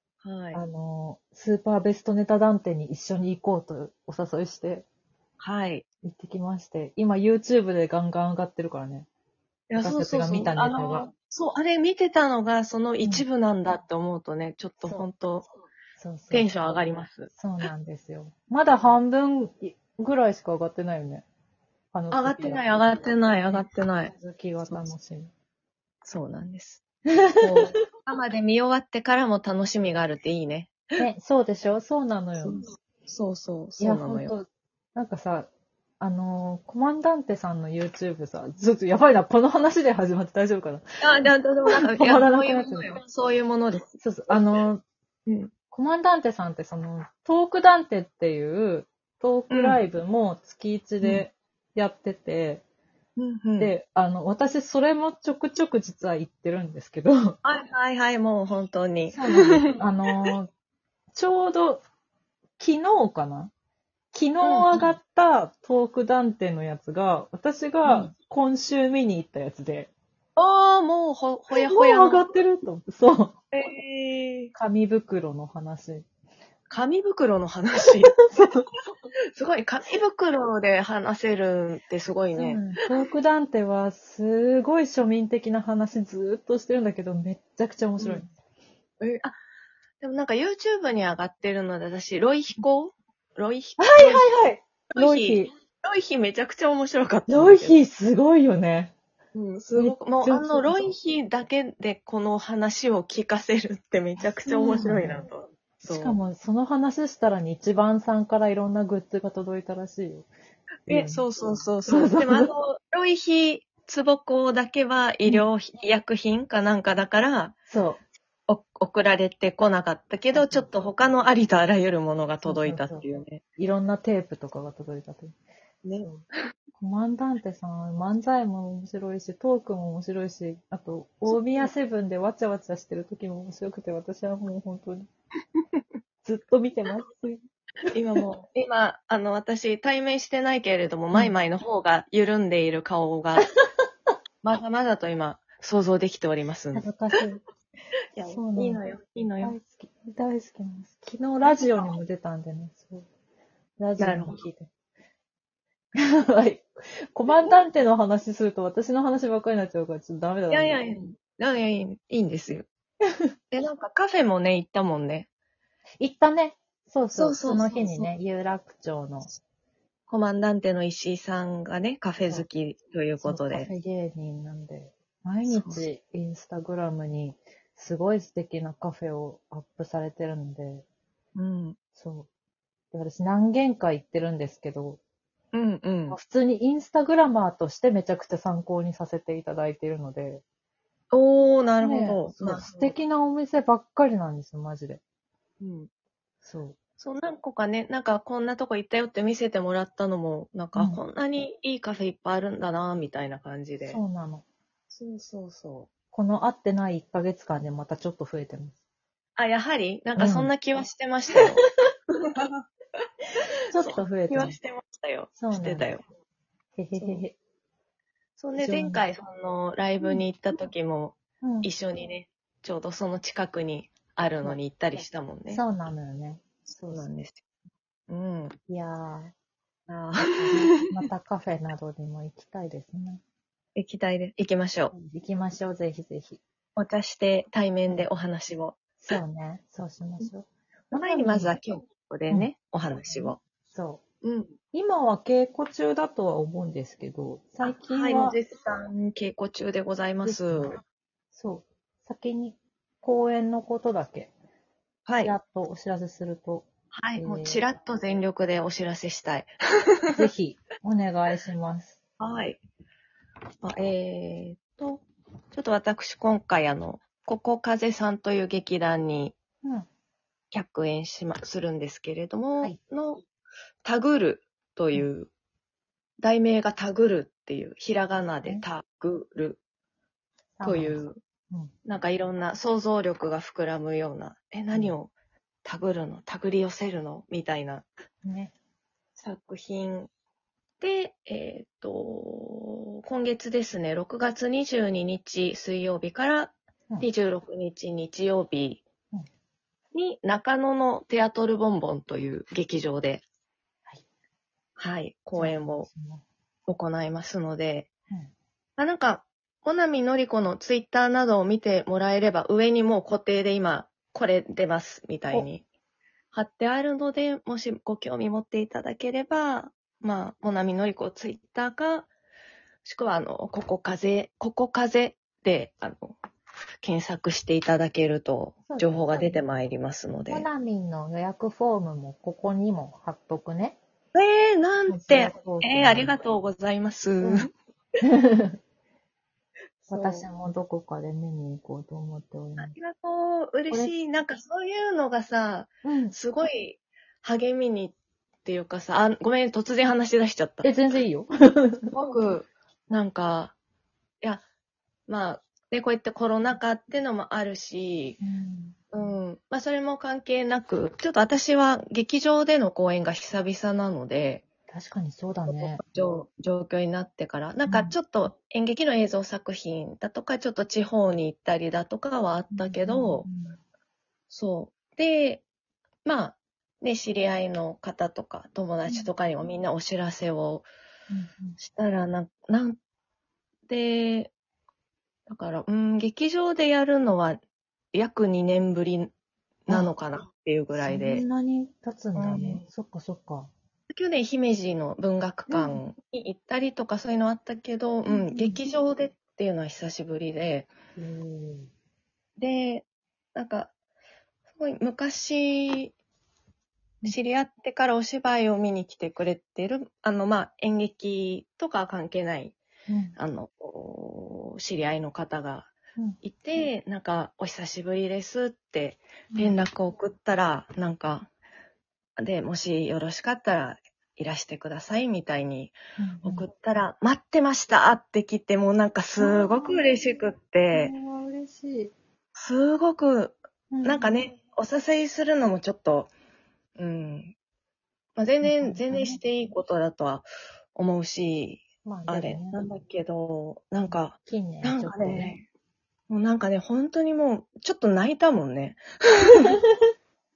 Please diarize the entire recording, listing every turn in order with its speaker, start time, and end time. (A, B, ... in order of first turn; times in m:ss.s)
0:00.2-0:00.6 A
0:00.5-0:04.8 B
0:05.4-0:05.8 A
0:06.0-0:09.1 B
0:09.7-0:15.5 A
0:09.8-0:11.1 B
0:14.8-0:15.1 B
0:16.0-0:16.8 B
0:16.3-0:17.3 A
0:17.3-0:21.2 B
0:21.9-0:25.3 B
0:22.1-0:24.1 A
0:26.0-0:26.8 A
0:27.1-0:27.7 B
0:27.4-0:31.0 A
0:31.0-0:32.6 B
0:32.4-0:34.3 A
0:33.8-0:35.5 B
0:36.0-0:40.8 B
0:41.0-0:44.4 A
0:41.7-0:43.0 B
0:44.0-0:44.8 B
0:45.2-0:45.5 A
0:45.7-0:52.6 B
0:49.5-0:49.8 A
0:53.2-0:53.7 A
0:53.6-0:57.4 B
0:57.4-1:00.3 A
0:59.1-1:00.5 B
1:01.1-1:01.8 B
1:02.6-1:03.5 B
1:04.1-1:09.9 B
1:04.4-1:04.9 A
1:07.8-1:08.1 A
1:10.4-1:12.2 A
1:11.5-1:13.4 B
1:13.5-1:14.5 A
1:14.5-1:16.0 B
1:16.7-1:18.2 A
1:18.1-1:18.6 B
1:19.3-1:22.7 A
1:22.3-1:28.3 B
1:28.0-1:28.2 A
1:29.0-1:29.4 A
1:30.0-1:34.3 A
1:33.8-1:35.5 B
1:34.9-1:37.8 A
1:37.3-1:38.9 B
1:39.3-1:46.2 A
1:39.7-1:40.9 B
1:44.4-1:45.2 B
1:45.8-1:50.3 B
1:50.8-1:57.6 A
1:50.9-1:51.3 B
1:51.8-1:52.5 B
1:57.7-1:58.0 B
1:58.5-2:03.4 A
2:00.3-2:00.8 B
2:02.4-2:05.4 B
2:05.8-2:06.2 A
2:06.8-2:15.1 B
2:11.3-2:11.7 A
2:16.2-2:17.4 B
2:17.9-2:23.5 A
2:24.4-2:26.9 A
2:26.7-2:27.4 B
2:28.1-2:29.5 A
2:28.3-2:28.8 B
2:29.4-2:33.0 B
2:31.4-2:32.0 A
2:33.8-2:34.7 B
2:34.0-2:34.4 A
2:36.0-2:40.8 B
2:37.3-2:37.6 A
2:40.5-2:42.7 A
2:43.5-2:45.3 A
2:46.0-2:49.3 B
2:47.1-2:48.1 A
2:50.1-2:53.7 A
2:53.2-3:00.8 B
2:55.5-2:55.8 A
3:01.3-3:01.8 A
3:02.0-3:02.3 B
3:02.9-3:05.0 B
3:05.5-3:06.2 A
3:06.1-3:10.4 B
3:11.1-3:12.9 A
3:11.8-3:15.0 B
3:15.6-3:15.9 A
3:16.4-3:16.7 B
3:17.0-3:24.0 A
3:20.7-3:21.0 B
3:23.8-3:24.4 B
3:24.9-3:25.9 A
3:26.1-3:28.7 B
3:29.4-3:31.6 A
3:30.2-3:30.5 B
3:32.2-3:32.5 A
3:33.7-3:34.6 B
3:33.8-3:36.0 A
3:35.4-3:35.9 B
3:36.8-3:37.4 B
3:36.9-3:37.2 A
3:38.4-3:45.6 A
3:38.6-3:39.0 B
3:41.4-3:41.7 B
3:44.4-3:47.0 B
3:46.9-3:47.4 A
3:48.1-3:48.6 A
3:48.7-3:49.3 B
3:49.9-3:50.9 A
3:50.4-3:53.2 B
3:53.8-3:54.9 A
3:54.9-3:56.4 B
3:56.8-3:58.8 A
3:59.0-4:01.5 B
4:00.9-4:03.4 A
4:03.1-4:04.0 B
4:04.2-4:04.5 A
4:04.7-4:08.4 B
4:07.6-4:10.8 A
4:10.2-4:10.8 B
4:11.3-4:14.3 B
4:15.0-4:15.4 A
4:15.2-4:16.7 B
4:16.9-4:20.2 A
4:17.2-4:17.6 B
4:20.2-4:22.0 B
4:22.2-4:22.6 A
4:23.6-4:29.3 A
4:30.5-4:33.2 A
4:33.8-4:35.3 A
4:36.2-4:39.6 A
4:40.6-4:41.7 B
4:40.6-4:41.2 A
4:41.8-4:45.1 A
4:44.7-4:45.0 B
4:45.6-4:47.8 A
4:48.2-4:48.5 B
4:49.2-4:50.1 A
4:50.8-4:58.8 A
4:59.9-5:03.2 A
5:04.8-5:05.9 A
5:05.3-5:06.2 B
5:06.7-5:07.9 A
5:08.8-5:15.6 A
5:16.3-5:22.1 A
5:22.8-5:26.2 A
5:26.8-5:30.5 A
5:28.7-5:29.4 B
5:30.3-5:33.8 B
5:34.1-5:37.5 A
5:34.9-5:36.1 B
5:37.2-5:37.5 B
5:38.0-5:38.6 B
5:39.9-5:40.2 A
5:39.9-5:42.7 B
5:42.6-5:50.7 A
5:45.8-5:46.1 B
5:50.6-5:51.9 B
5:51.9-5:53.5 A
5:55.1-5:58.2 A
5:58.2-5:58.8 B
5:58.9-6:04.4 A
6:04.7-6:05.8 B
6:05.5-6:13.3 A
6:07.7-6:07.9 B
6:12.5-6:13.6 B
6:14.3-6:15.4 A
6:16.0-6:20.7 A
6:21.1-6:21.6 B
6:21.6-6:22.8 A
6:23.7-6:24.3 A
6:25.3-6:27.4 A
6:27.9-6:29.1 A
6:29.7-6:31.2 A
6:30.7-6:33.5 B
6:32.1-6:32.6 A
6:33.9-6:40.7 A
6:35.5-6:35.8 B
6:38.1-6:38.6 B
6:41.0-6:41.7 B
6:42.4-6:43.7 A
6:44.6-6:45.9 A
6:47.0-6:52.6 A
6:52.9-6:53.2 B
6:53.2-7:01.3 A
6:59.3-6:59.6 B
7:02.2-7:10.9 A
7:06.0-7:06.5 B
7:09.2-7:09.9 B
7:10.7-7:11.9 B
7:12.3-7:16.1 A
7:13.7-7:14.2 B
7:16.8-7:17.3 A
7:18.2-7:25.4 A
7:18.4-7:19.2 B
7:21.8-7:22.6 B
7:23.8-7:25.4 B
7:26.1-7:29.6 A